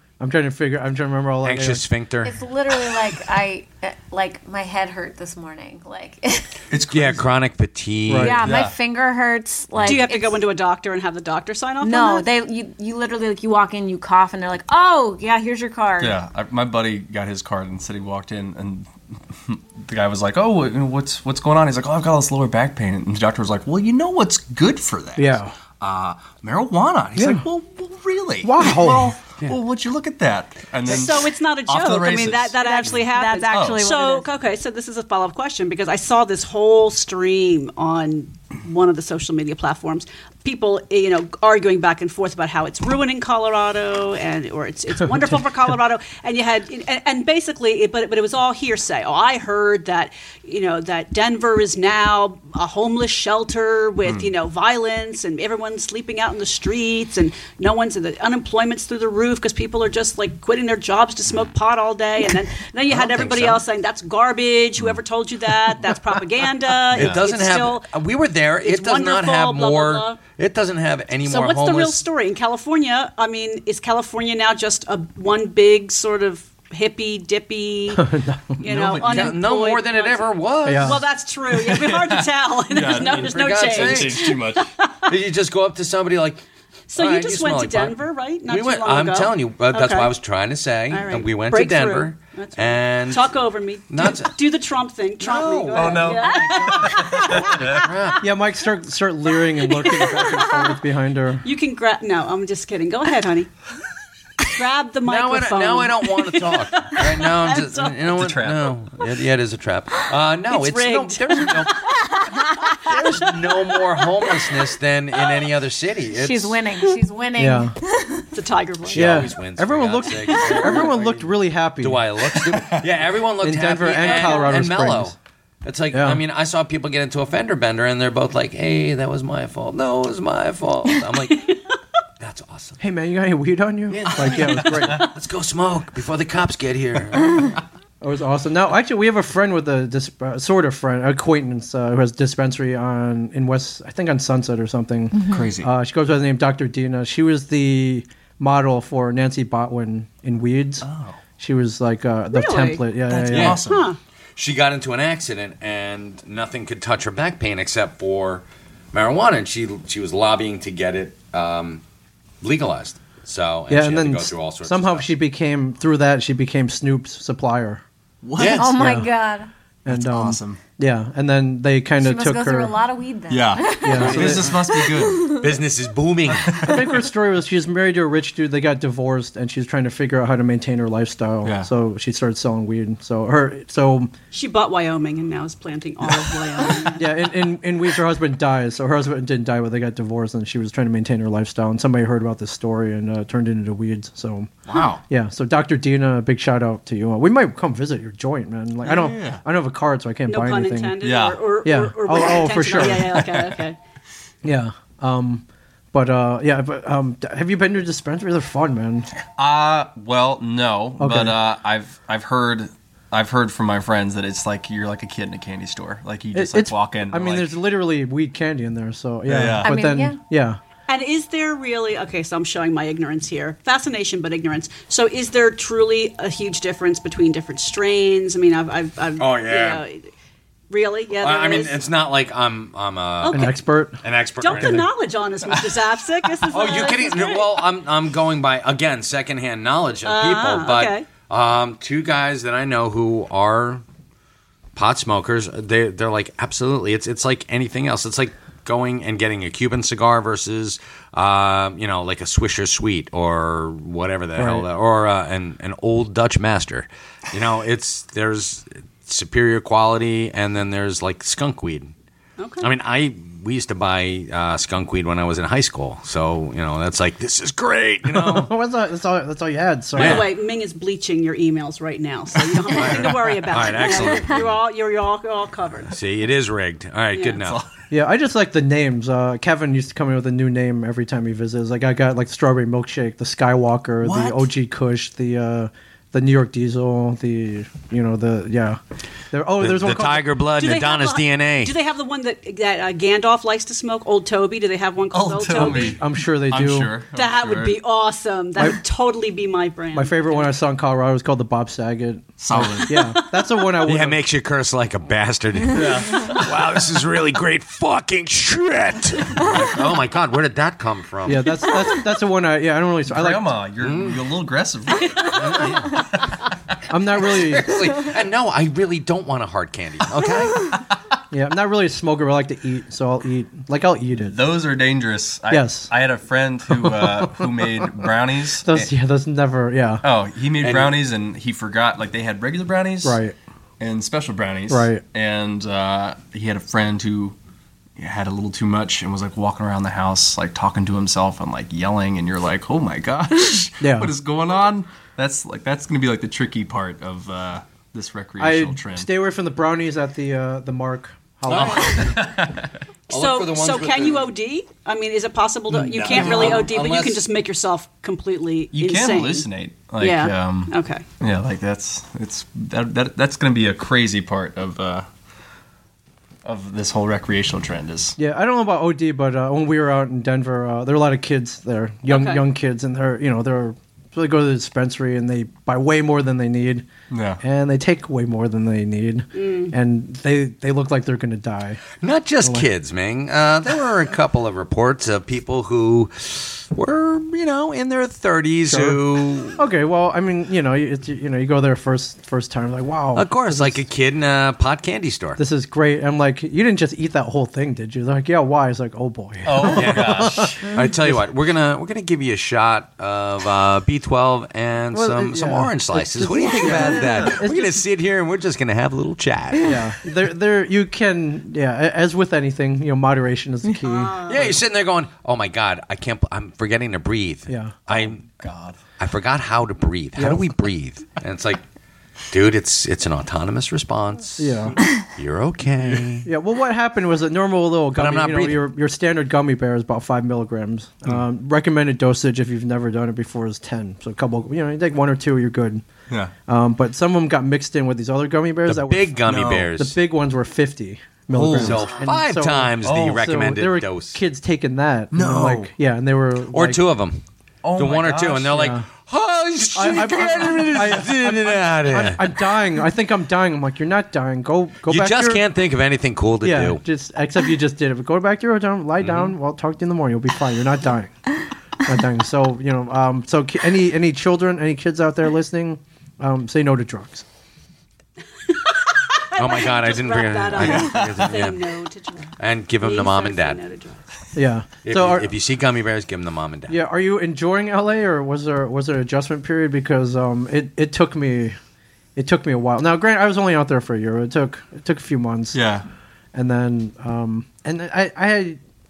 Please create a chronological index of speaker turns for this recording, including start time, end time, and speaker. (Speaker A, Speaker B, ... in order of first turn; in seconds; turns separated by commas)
Speaker A: 0.2-1.8, Speaker B: 1.4-2.4, Speaker C: 2.2-6.5, Speaker D: 6.7-7.3, Speaker B: 6.9-8.4, Speaker A: 8.1-8.4, Speaker C: 8.2-10.4, Speaker D: 8.4-8.7, Speaker E: 9.8-12.3, Speaker C: 11.8-16.2, Speaker D: 16.0-32.6, Speaker A: 25.2-25.5, Speaker A: 27.1-27.4, Speaker A: 28.4-29.1, Speaker E: 30.8-67.9, Speaker C: 32.6-34.3, Speaker D: 33.5-33.8, Speaker D: 54.0-54.3, Speaker B: 62.9-63.6, Speaker D: 66.9-67.2, Speaker B: 66.9-72.0, Speaker E: 68.6-70.2, Speaker E: 71.2-78.1, Speaker A: 77.9-78.6, Speaker E: 78.6-85.1, Speaker D: 78.7-79.3, Speaker B: 78.7-81.0, Speaker A: 80.6-81.0, Speaker D: 81.5-84.7, Speaker B: 82.9-84.4, Speaker B: 85.1-86.4, Speaker E: 86.9-90.1, Speaker B: 87.0-93.3, Speaker E: 90.9-97.5, Speaker B: 93.9-94.3, Speaker B: 95.2-98.3, Speaker D: 95.7-97.8, Speaker A: 98.2-101.5, Speaker E: 99.7-100.7, Speaker E: 101.4-103.5, Speaker E: 104.5-108.0, Speaker B: 105.0-112.0, Speaker D: 108.1-108.8, Speaker E: 110.5-111.8, Speaker B: 112.8-116.6, Speaker E: 112.9-113.3, Speaker C: 116.1-118.3, Speaker A: 117.4-117.7, Speaker E: 118.3-119.3, Speaker B: 118.9-131.5, Speaker A: 118.9-122.0, Speaker E: 120.3-120.8, Speaker D: 122.4-122.8, Speaker A: 123.4-125.1, Speaker E: 123.9-124.5, Speaker A: 125.9-126.2, Speaker E: 131.3-131.6, Speaker B: 132.2-132.8, Speaker A: 132.8-135.0, Speaker B: 133.9-137.6, Speaker D: 134.4-134.8, Speaker A: 138.0-150.8, Speaker C: 145.2-145.4, Speaker D: 145.3-145.7, Speaker D: 150.8-151.2, Speaker A: 151.4-153.6, Speaker E: 152.3-152.8, Speaker D: 153.1-153.9, Speaker B: 153.3-153.6, Speaker E: 153.6-154.0, Speaker B: 154.3-161.8, Speaker B: 162.4-165.1, Speaker A: 163.7-167.8, Speaker D: 168.2-168.7, Speaker B: 168.3-168.7, Speaker C: 168.5-169.5, Speaker A: 168.7-169.1, Speaker A: 169.8-172.7, Speaker D: 169.9-170.6, Speaker C: 172.0-175.4, Speaker D: 173.3-175.4, Speaker A: 173.8-174.4, Speaker B: 173.9-176.7, Speaker D: 176.3-176.9, Speaker A: 176.6-184.1, Speaker D: 181.4-181.7, Speaker E: 184.3-187.3, Speaker D: 186.1-186.8, Speaker A: 186.9-194.5, Speaker D: 194.7-195.0, Speaker A: 195.1-201.0, Speaker D: 198.8-199.4, Speaker E: 200.3-203.8, Speaker D: 201.0-201.4, Speaker A: 201.6-203.2, Speaker D: 202.7-203.6, Speaker A: 204.4-209.1, Speaker D: 209.3-217.5, Speaker A: 211.0-211.4, Speaker A: 216.3-220.6, Speaker D: 219.2-219.7, Speaker C: 219.6-220.2, Speaker E: 220.9-230.1, Speaker B: 229.2-229.8, Speaker E: 230.7-231.8, Speaker B: 231.2-233.5, Speaker E: 233.2-233.6, Speaker A: 233.3-234.0, Speaker B: 234.0-234.9, Speaker E: 234.4-237.6, Speaker A: 234.5-234.8, Speaker D: 235.5-235.7, Speaker B: 236.5-243.8, Speaker E: 240.0-241.1, Speaker B: 244.7-261.9, Speaker A: 254.4-254.7, Speaker E: 262.4-262.7, Speaker B: 262.6-268.5, Speaker A: 268.1-270.2, Speaker E: 269.9-275.9, Speaker B: 269.9-270.3, Speaker B: 272.6-274.5, Speaker B: 275.9-277.6, Speaker E: 277.1-277.4, Speaker D: 277.4-277.7, Speaker A: 277.9-288.8, Speaker D: 284.0-284.5, Speaker A: 289.3-290.3, Speaker B: 289.6-291.7, Speaker E: 290.6-296.0, Speaker D: 295.1-297.8, Speaker A: 295.5-296.9, Speaker E: 297.1-300.5, Speaker A: 299.9-304.2, Speaker D: 302.4-303.1, Speaker B: 303.8-311.7, Speaker D: 305.7-306.5, Speaker A: 311.2-313.5, Speaker D: 313.1-316.4, Speaker B: 313.8-314.2, Speaker B: 315.2-316.0, Speaker A: 316.9-317.8, Speaker B: 317.2-320.7, Speaker A: 321.3-324.4, Speaker D: 324.3-328.9, Speaker A: 325.5-325.9, Speaker A: 326.7-327.9, Speaker A: 328.6-330.0, Speaker D: 330.0-333.2, Speaker B: 330.6-331.0, Speaker A: 333.0-333.3, Speaker D: 333.8-337.4, Speaker A: 334.7-335.0, Speaker D: 338.0-349.1, Speaker A: 343.8-344.1, Speaker A: 348.4-352.1, Speaker B: 351.5-352.2, Speaker D: 351.5-352.7, Speaker B: 353.1-354.3, Speaker E: 353.1-359.5, Speaker D: 355.7-356.7, Speaker B: 356.1-357.2, Speaker D: 358.7-365.1, Speaker E: 360.0-361.1, Speaker D: 366.4-368.1, Speaker A: 368.2-376.9, Speaker E: 372.1-372.4, Speaker D: 377.1-377.4, Speaker A: 377.4-381.8, Speaker E: 379.3-379.7, Speaker B: 382.0-389.6, Speaker A: 388.7-393.8, Speaker B: 393.1-395.4, Speaker A: 395.4-401.2, Speaker D: 399.4-400.7, Speaker B: 399.7-409.8, Speaker A: 404.9-407.8, Speaker D: 406.6-407.4, Speaker A: 409.6-414.2, Speaker E: 413.8-414.6, Speaker B: 414.2-418.2, Speaker A: 417.5-417.7, Speaker D: 417.9-418.8, Speaker B: 419.0-421.6, Speaker A: 420.2-420.4, Speaker B: 422.3-426.3, Speaker A: 424.4-424.8, Speaker A: 426.2-435.8, Speaker B: 427.9-428.6, Speaker A: 436.5-446.8, Speaker B: 438.6-440.0, Speaker D: 439.2-439.7, Speaker B: 441.3-444.2, Speaker D: 441.5-441.8, Speaker D: 442.8-443.2, Speaker D: 445.1-445.7, Speaker B: 446.5-447.2, Speaker D: 447.6-448.7, Speaker B: 447.7-452.4, Speaker A: 448.5-448.9, Speaker A: 449.7-455.4, Speaker B: 454.9-456.8, Speaker A: 456.4-461.2, Speaker B: 459.0-459.3, Speaker A: 461.8-467.2, Speaker E: 468.5-474.0, Speaker B: 469.3-471.7, Speaker D: 470.6-471.2, Speaker B: 472.4-473.6, Speaker A: 474.3-475.3, Speaker B: 474.8-476.8, Speaker A: 476.7-481.6, Speaker A: 482.1-485.6, Speaker D: 485.5-485.9, Speaker A: 486.3-488.6